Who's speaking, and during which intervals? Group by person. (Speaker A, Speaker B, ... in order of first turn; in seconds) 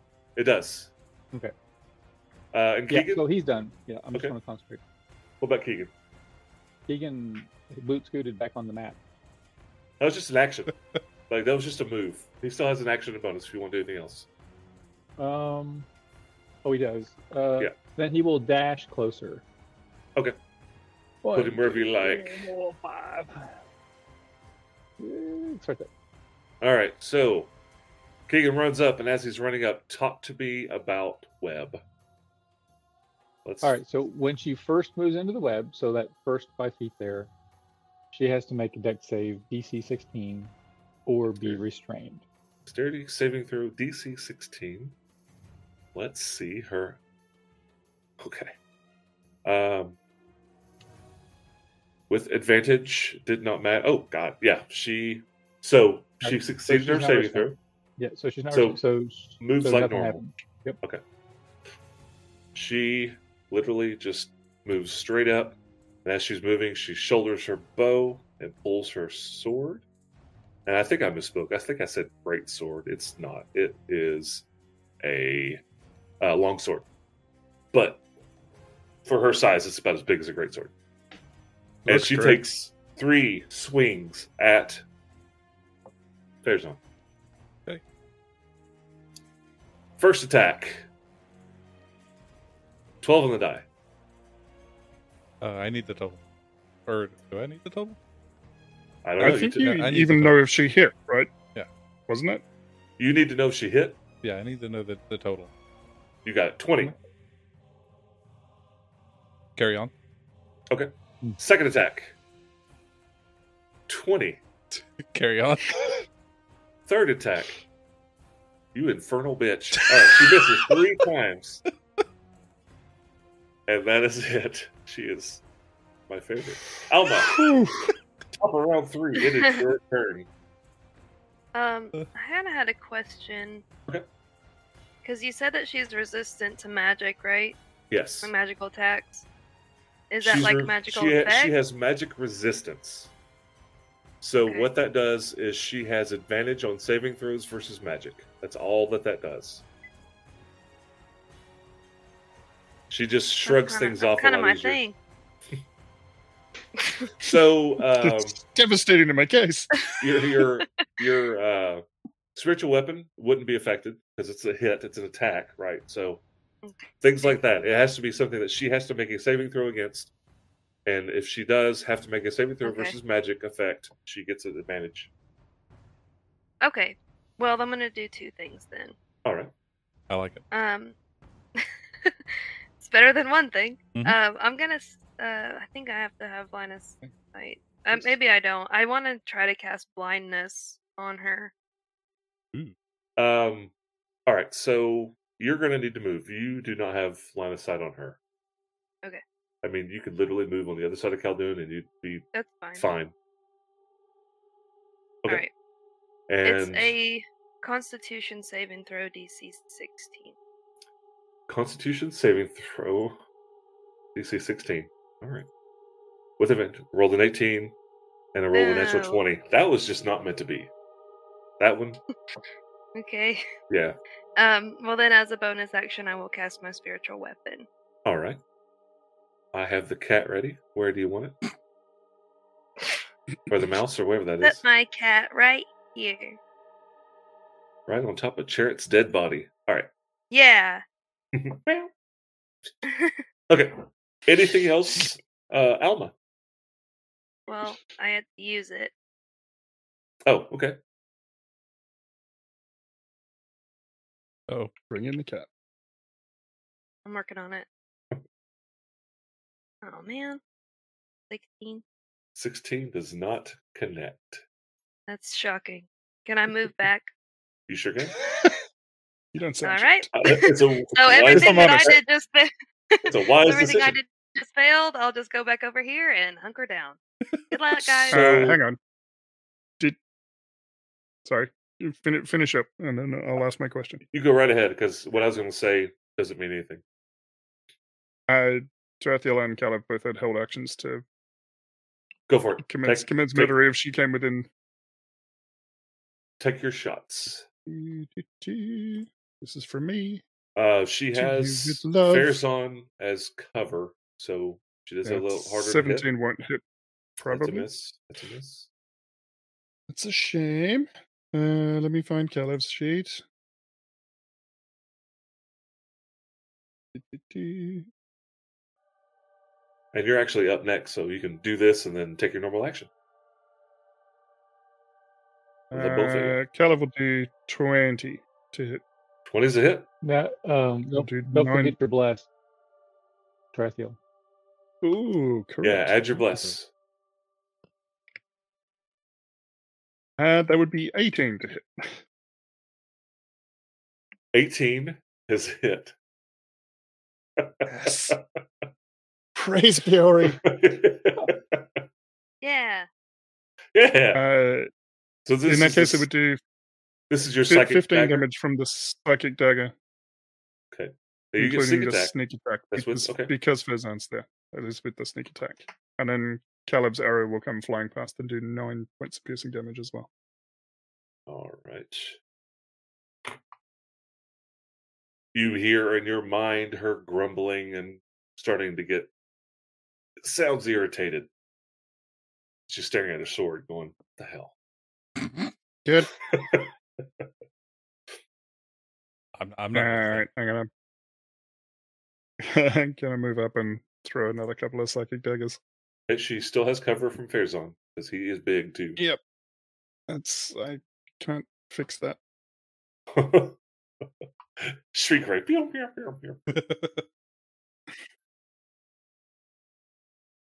Speaker A: 0.3-0.9, 2.5-3.2, 5.4-5.9, 10.0-10.7, 11.3-14.3, 21.3-22.4, 26.6-27.5, 28.3-31.8, 33.4-33.8, 42.6-44.9, 45.9-47.0, 48.2-48.5, 49.4-50.0, 52.1-57.6, 58.5-58.8, 59.4-60.2, 62.5-69.8, 70.7-74.5, 75.0-75.6, 76.2-76.8, 77.7-78.0, 79.0-80.7, 81.9-84.8, 86.4-86.8, 90.0-90.8, 93.0-93.6, 99.0-99.7, 103.0-104.0, 106.2-106.9, 110.7-112.1, 113.9-114.4, 116.9-117.6, 118.7-121.6, 123.7-125.4, 126.1-127.4, 128.4-130.3, 137.9-138.3, 140.2-143.1, 144.2-149.6, 152.9-154.8, 157.2-158.4, 160.0-161.8, 162.3-166.2, 167.0-170.1, 170.8-175.1, 179.2-179.5, 193.2-193.7, 194.3-198.2, 199.6-203.1, 206.3-206.9, 211.5-213.2, 214.1-215.5, 216.4-217.7, 218.3-220.7, 221.6-222.0, 223.7-224.0, 228.0-228.4, 229.5-231.4, 233.5-234.6, 237.9-239.9, 241.3-241.9, 243.5-246.1, 250.2-250.8, 262.4-264.4, 267.7-268.1, 270.1-271.9, 273.1-274.0, 278.1-278.6, 284.1-286.8, 292.3-293.5, 296.4-297.4, 300.6-306.1, 307.3-308.7, 319.9-322.9, 325.7-326.4, 329.3-329.9, 335.6-336.7, 344.3-345.9, 347.4-348.2, 350.3-351.8, 353.7-354.2, 355.2-356.1, 357.1-358.2, 360.7-362.1, 362.7-363.3, 371.3-372.2, 375.3-379.1, 380.2-381.3, 382.7-384.5, 386.2-386.7, 396.1-399.0, 403.1-403.6, 404.6-406.5
Speaker B: 2.9-4.8, 6.9-9.0, 15.2-15.9, 16.6-19.4, 21.2-23.6, 25.0-25.9, 33.6-37.3, 38.1-40.5, 41.0-42.2, 56.2-60.8, 330.0-332.3, 333.5-334.0
Speaker C: 81.8-82.4, 99.2-101.3, 102.1-102.4, 127.3-127.9, 158.0-159.8, 254.9-255.5, 269.3-270.1, 271.1-272.0, 278.1-278.8, 281.2-284.0, 288.3-291.0, 292.6-294.5, 297.7-300.2, 301.1-302.4, 305.0-306.6, 307.2-307.7, 309.9-313.2, 316.9-317.9, 325.7-328.8, 330.9-331.7, 334.8-336.4, 340.2-341.9, 347.7-348.2, 349.3-350.4, 354.1-354.7, 355.4-356.4, 357.5-359.7, 361.4-370.1, 385.8-386.1, 389.7-390.7, 392.4-395.6, 400.1-402.2
Speaker D: 95.4-96.2, 96.8-98.0, 99.2-100.4, 104.2-105.5, 109.5-109.9, 114.7-116.0, 119.8-120.8, 180.1-180.4, 389.4-390.2, 406.5-407.0
Speaker E: 131.5-133.6, 135.0-137.6, 138.2-139.2, 140.1-141.5, 153.4-154.9, 156.8-157.1, 166.6-167.3, 172.6-172.9, 176.6-178.9, 180.5-180.9, 181.6-182.2, 182.8-191.5, 202.3-202.8, 206.4-210.3, 218.5-219.2, 222.9-223.4, 224.4-227.7, 234.4-236.4, 240.3-240.8, 242.8-243.2, 247.5-248.9, 257.1-257.7, 259.8-260.4, 261.3-261.8, 265.1-267.1, 269.6-270.4, 270.9-277.0, 277.5-278.2, 352.4-352.9